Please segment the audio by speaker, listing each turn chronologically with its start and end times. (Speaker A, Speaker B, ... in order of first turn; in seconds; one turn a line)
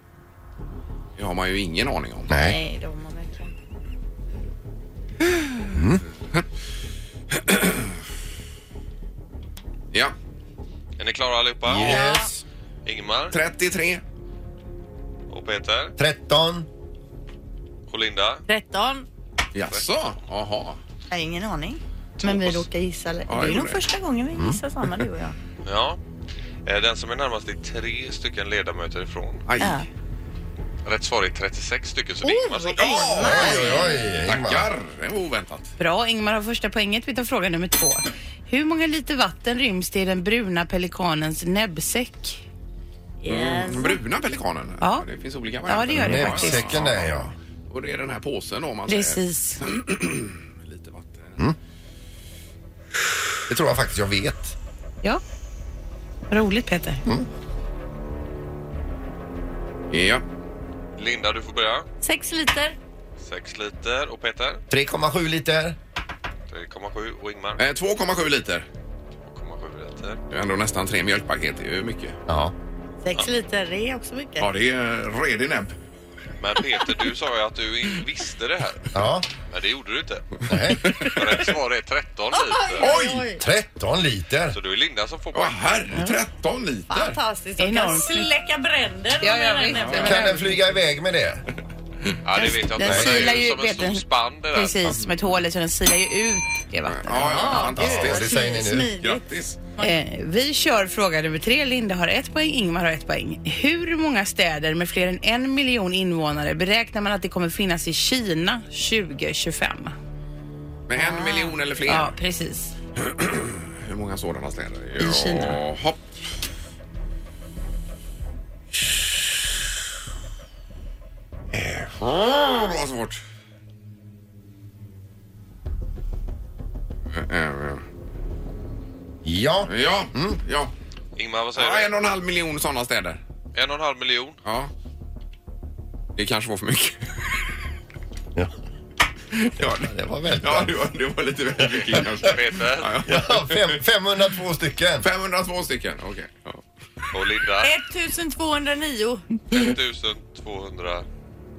Speaker A: 1.2-2.3
Speaker B: 2.3-2.6
Speaker C: 2.4-3.5
Speaker A: 5.3-5.6
Speaker B: 5.7-6.0
Speaker A: 7.3-7.9
Speaker D: 11.0-12.1
Speaker B: 11.6-12.4
Speaker C: 11.8-12.3
Speaker D: 12.8-13.3
Speaker A: 13.3-14.0
Speaker D: 15.3-15.9
Speaker B: 16.0-16.7
Speaker D: 17.9-18.4
Speaker C: 18.5-19.1
Speaker A: 19.5-20.8
Speaker C: 21.1-25.3
Speaker A: 22.2-22.6
Speaker A: 23.3-23.8
Speaker D: 25.6-26.0
Speaker D: 26.6-29.5
Speaker A: 29.5-29.7
Speaker C: 29.6-29.9
Speaker D: 30.8-33.3
Speaker C: 32.2-33.8
Speaker A: 32.8-35.7
Speaker B: 33.2-34.7
Speaker E: 35.8-42.4
Speaker C: 43.2-44.0
Speaker A: 43.2-51.4
Speaker E: 44.8-45.0
Speaker E: 45.6-46.7
Speaker B: 46.0-47.3
Speaker E: 48.9-49.6
Speaker B: 53.5-54.5
Speaker E: 56.3-57.0
Speaker A: 59.9-60.2
Speaker D: 61.0-61.9
Speaker C: 62.0-62.8
Speaker D: 63.2-64.6
Speaker B: 64.7-65.8
Speaker D: 66.5-67.6
Speaker A: 67.6-68.7
Speaker D: 69.2-70.2
Speaker A: 70.3-72.2
Speaker B: 72.3-72.5
Speaker C: 73.0-74.5
Speaker A: 74.4-75.7
Speaker D: 76.4-78.9
Speaker B: 78.9-79.3
Speaker D: 79.5-82.9
Speaker B: 80.5-81.0
Speaker A: 80.7-81.5
Speaker C: 82.3-83.4
Speaker A: 82.8-83.2
Speaker B: 83.4-84.6
Speaker D: 84.5-85.7
Speaker A: 85.3-87.2
Speaker C: 86.9-90.3
Speaker E: 87.6-88.3
Speaker E: 89.2-90.4
Speaker A: 89.8-90.1
Speaker B: 90.0-91.4
Speaker D: 92.2-95.0
Speaker E: 92.3-97.7
Speaker B: 92.8-93.2
Speaker A: 96.9-99.6
Speaker C: 97.2-99.9
Speaker B: 97.8-98.9
Speaker E: 99.8-109.9
Speaker A: 110.9-112.1
Speaker C: 111.0-111.5
Speaker E: 111.8-112.7
Speaker A: 113.0-116.0
Speaker C: 115.0-115.4
Speaker A: 121.5-123.2
Speaker A: 127.1-127.8
Speaker B: 129.2-130.4
Speaker A: 129.7-130.7
Speaker D: 131.2-131.9
Speaker A: 131.5-133.2
Speaker D: 133.5-134.4
Speaker A: 134.4-134.7
Speaker A: 136.2-137.4
Speaker A: 139.3-143.8
Speaker B: 139.6-140.7
Speaker D: 141.6-143.1
Speaker B: 143.0-145.1
Speaker A: 145.0-146.6
Speaker D: 147.1-147.7
Speaker C: 147.6-149.4
Speaker D: 149.5-151.1